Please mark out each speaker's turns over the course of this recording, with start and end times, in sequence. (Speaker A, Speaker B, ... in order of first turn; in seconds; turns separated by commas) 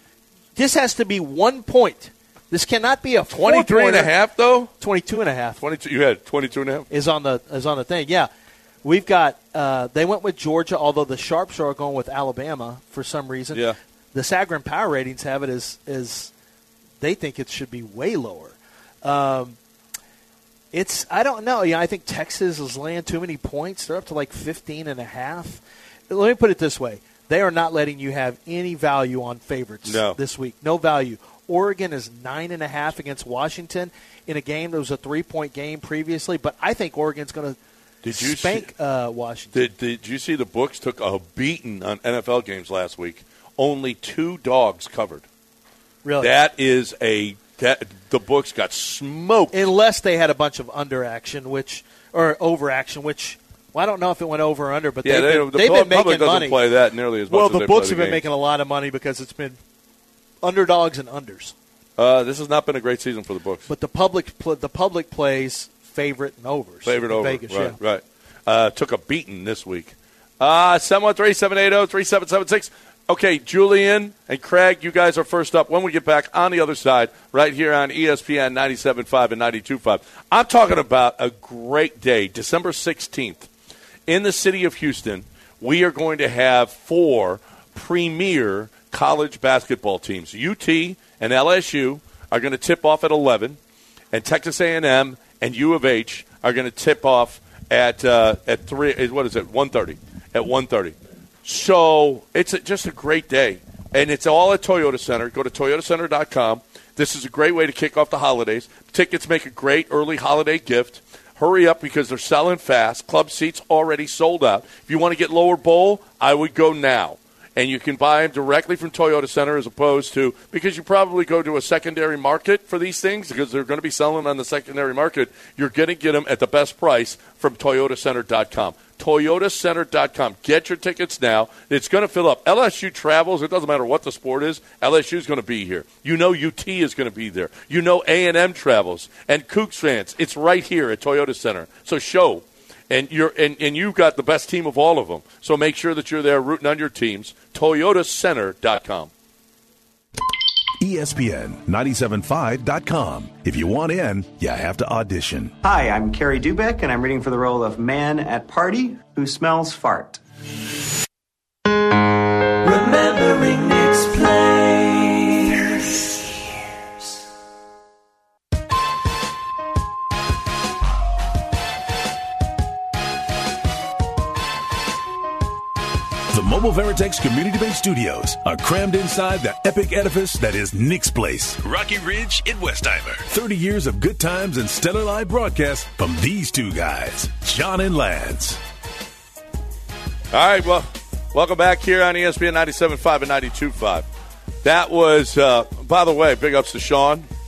Speaker A: 0.6-4.1, Speaker B: 3.3-4.7, Speaker A: 4.8-5.6, Speaker B: 5.6-6.9, Speaker A: 6.9-8.3, Speaker A: 8.8-16.3, Speaker B: 13.5-13.8, Speaker A: 17.0-19.6, Speaker A: 20.7-37.6, Speaker B: 29.8-30.2, Speaker B: 38.0-38.7, Speaker A: 38.1-39.6, Speaker B: 39.5-45.2, Speaker A: 46.0-46.3, Speaker B: 46.2-49.5, Speaker A: 49.5-56.6, Speaker B: 55.0-58.2, Speaker A: 57.3-59.6, Speaker A: 60.4-61.5, Speaker B: 62.0-63.7, Speaker A: 63.7-67.8, Speaker B: 66.8-83.5, Speaker B: 84.1-93.6, Speaker B: 94.1-149.1, Speaker C: 150.8-155.6, Speaker D: 155.6-160.2, Speaker E: 162.6-165.6, Speaker C: 176.3-188.6, Speaker B: 190.3-194.1, Speaker B: 194.6-197.3